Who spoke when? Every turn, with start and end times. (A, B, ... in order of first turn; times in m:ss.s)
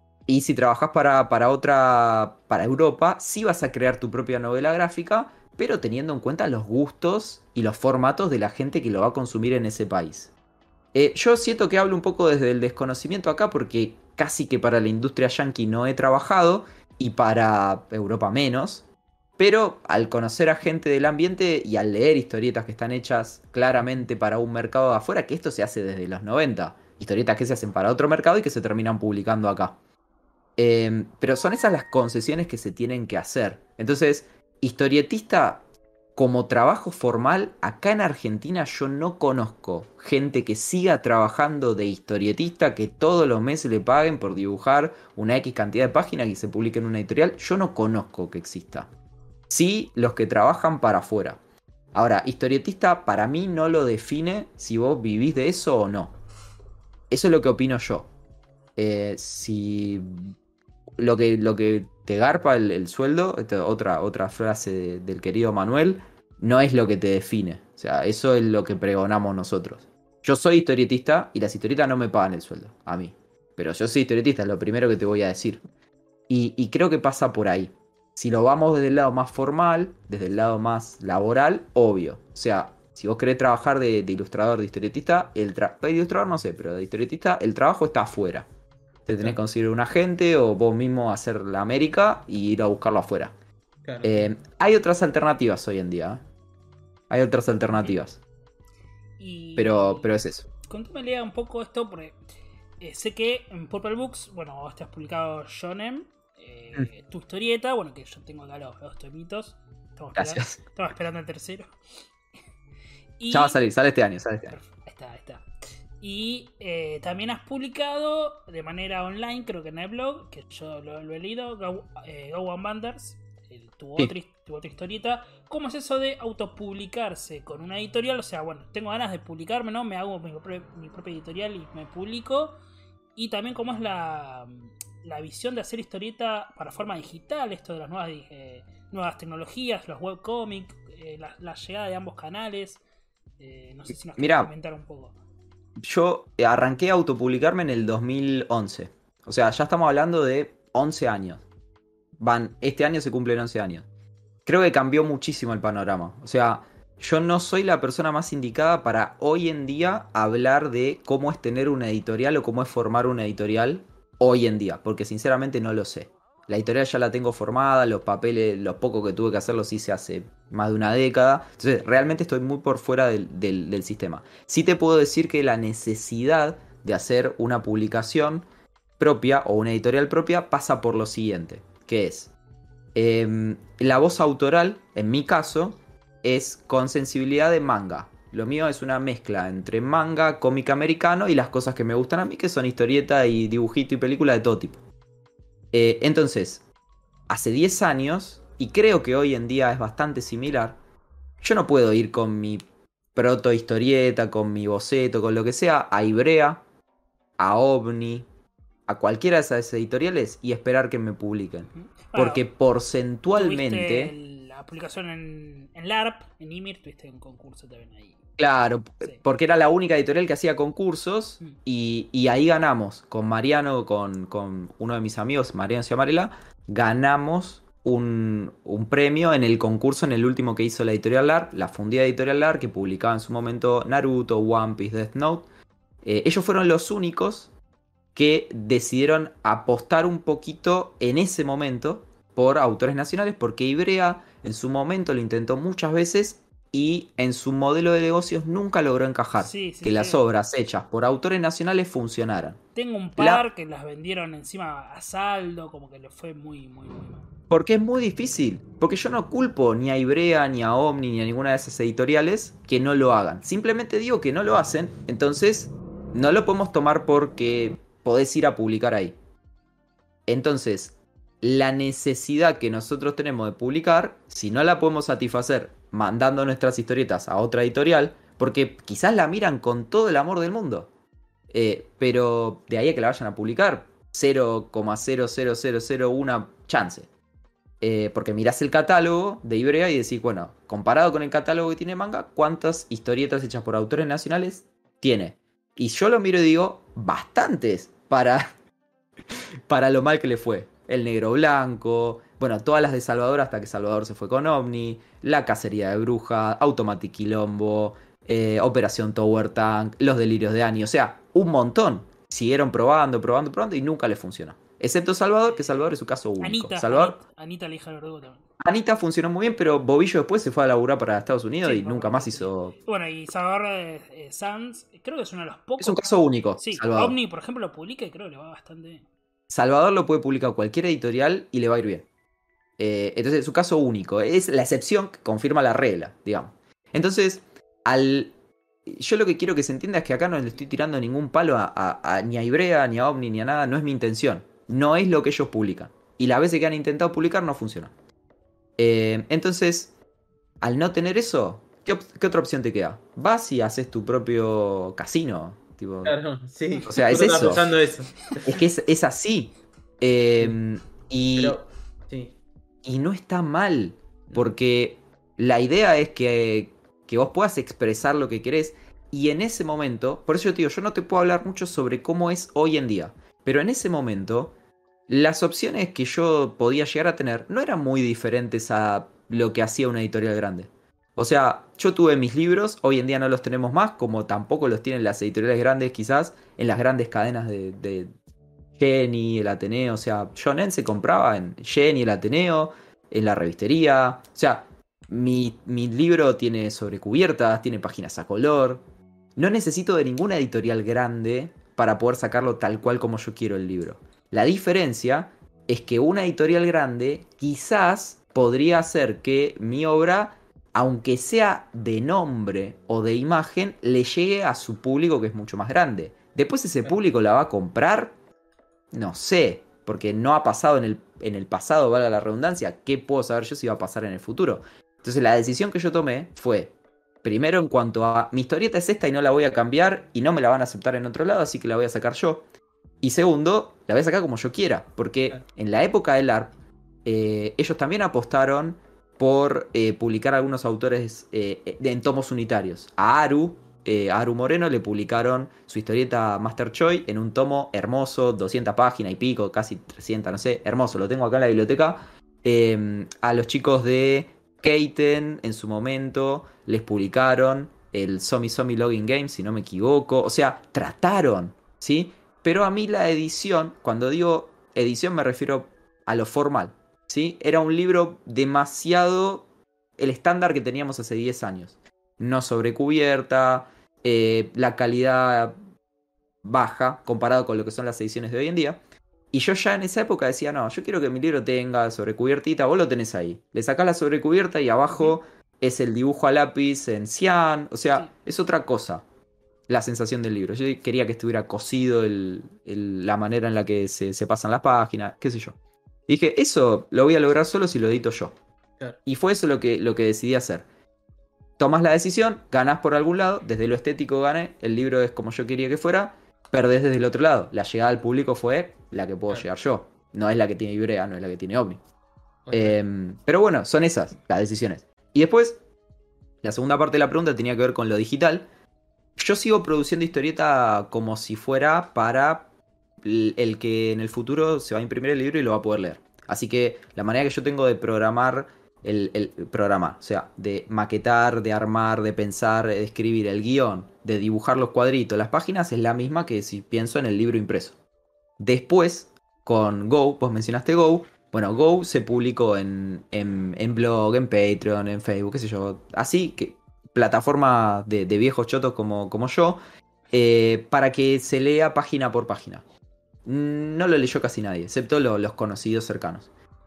0:00.3-0:10.3 A
0:10.9-0:18.8 A
0:19.4-0:29.8 A
0:30.6-0:35.6 A
0:36.2-0:48.9 A
0:49.5-0:51.4 A
0:51.9-0:56.2 A
0:57.1-0:58.1 A
0:58.8-1:00.3 A
1:01.0-1:15.6 A
1:16.3-1:28.5 A
1:29.1-1:33.3 A
1:33.8-1:34.3 B
1:34.0-1:36.2 A
1:37.1-1:38.2 A
1:39.2-1:40.1 C
1:39.6-1:40.5 A
1:40.6-1:42.2 C
1:42.8-1:51.7 C
1:50.2-1:50.6 A
1:53.2-1:53.6 C
1:53.3-1:54.6 A
1:54.5-1:55.4 C
1:56.0-2:12.6 C
2:13.2-2:22.8 C
2:23.4-2:25.2 C
2:24.2-2:24.5 A
2:25.8-2:31.4 A
2:32.2-2:33.9 A
2:34.5-2:58.5 A
2:59.0-3:02.3 A
3:03.0-3:14.8 A
3:15.7-3:16.6 A
3:17.3-3:20.8 A
3:21.4-3:22.6 A
3:23.2-3:26.6 A
3:27.4-3:28.3 A
3:28.9-3:34.1 A
3:31.7-3:32.4 C
3:33.3-3:38.2 C
3:38.4-3:55.5 A
3:56.0-3:57.5 A
3:58.2-4:12.6 A
4:09.4-4:10.2 C
4:12.8-4:17.2 C
4:13.2-4:13.4 A
4:17.5-4:29.2 A
4:30.3-4:40.9 A
4:41.5-4:47.1 A
4:47.8-4:58.5 A
4:59.7-5:17.2 A
5:15.5-5:15.8 C
5:16.4-5:18.4 C
5:18.6-5:22.7 A
5:21.6-5:29.0 C
5:25.8-5:27.2 A
5:29.5-5:32.1 A
5:32.8-5:38.3 A
5:38.9-5:47.9 A
5:48.8-5:49.9 A
5:50.6-5:56.2 A
5:56.0-5:58.6 B
5:56.8-5:57.1 C
5:56.9-5:57.7 A
5:58.4-6:01.6 A
6:01.4-6:02.4 B
6:02.8-6:14.5 A
6:15.1-6:28.1 A
6:28.8-6:38.8 A
6:39.4-6:58.1 A
6:58.9-7:12.4 A
7:13.0-7:16.5 A
7:17.0-7:49.5 A
7:50.0-7:55.6 A
7:56.4-7:58.8 A
7:59.3-8:09.0 A
8:09.7-8:15.6 A
8:16.1-8:18.4 A
8:19.1-8:20.6 A
8:21.6-8:31.8 A
8:32.5-8:32.8 B
8:32.5-8:35.6 A
8:36.4-8:38.5 A
8:39.2-8:42.5 A
8:43.0-8:57.8 A
8:58.4-9:09.6 A
9:10.1-9:12.6 A
9:13.2-9:16.3 A